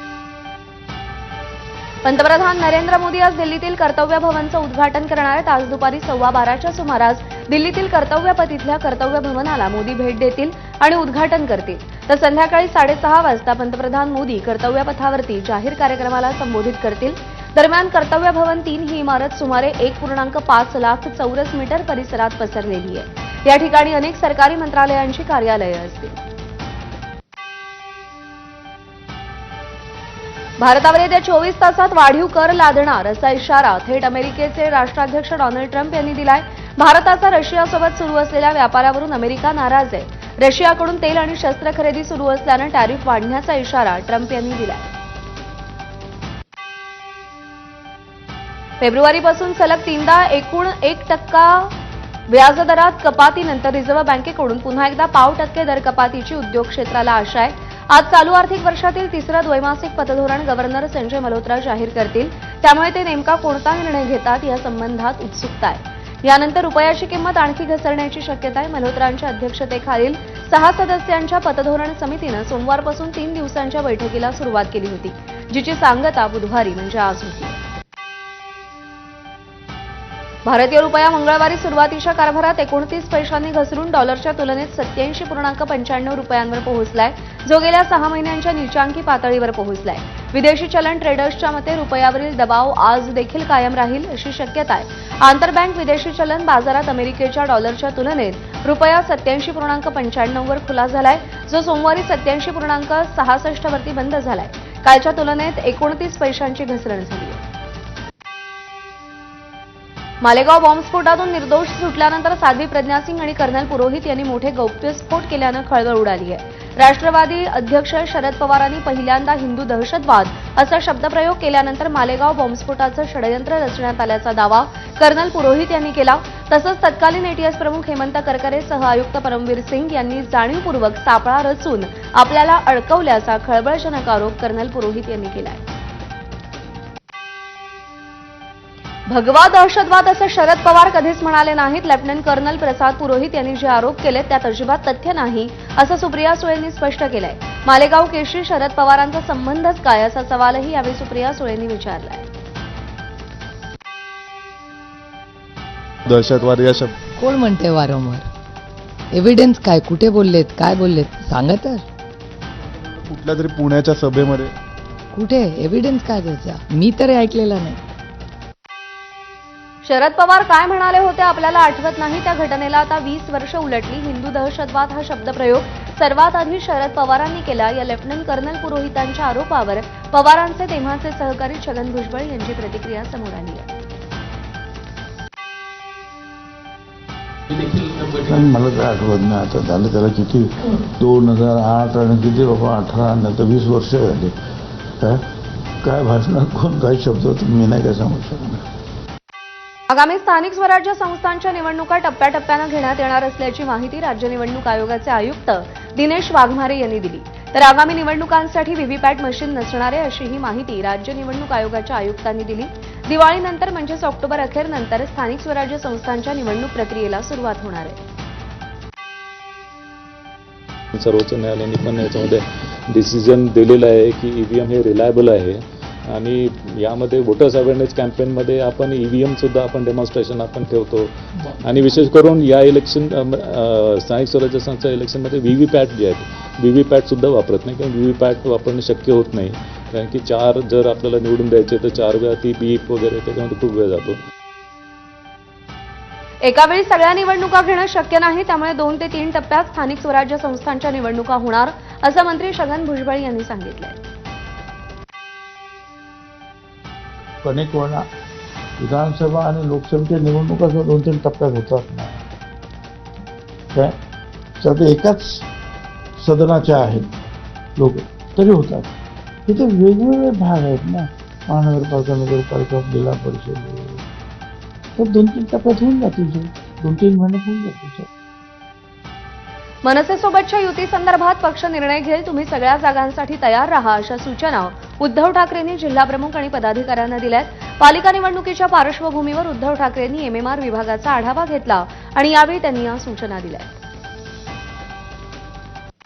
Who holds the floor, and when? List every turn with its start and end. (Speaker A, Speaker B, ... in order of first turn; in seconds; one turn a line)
Speaker A: 2.0-26.2
Speaker A: 30.6-44.9
Speaker A: 48.8-51.7
Speaker A: 52.3-77.6
Speaker A: 80.5-107.4
Speaker A: 110.2-135.6
Speaker A: 139.1-152.3
Speaker B: 156.1-156.9
Speaker C: 157.1-158.3
Speaker C: 159.1-161.9
Speaker B: 163.1-164.5
Speaker C: 165.1-167.8
Speaker A: 169.8-183.7
Speaker D: 187.7-194.3
Speaker D: 195.8-198.6
Speaker A: 199.9-218.0
Speaker E: 220.9-244.2
Speaker A: 246.4-254.0
Speaker D: 257.4-258.0
Speaker D: 258.8-262.2
Speaker D: 264.6-265.5
Speaker D: 266.2-268.9
Speaker D: 269.5-274.0
Speaker D: 275.0-278.1
Speaker A: 279.8-293.8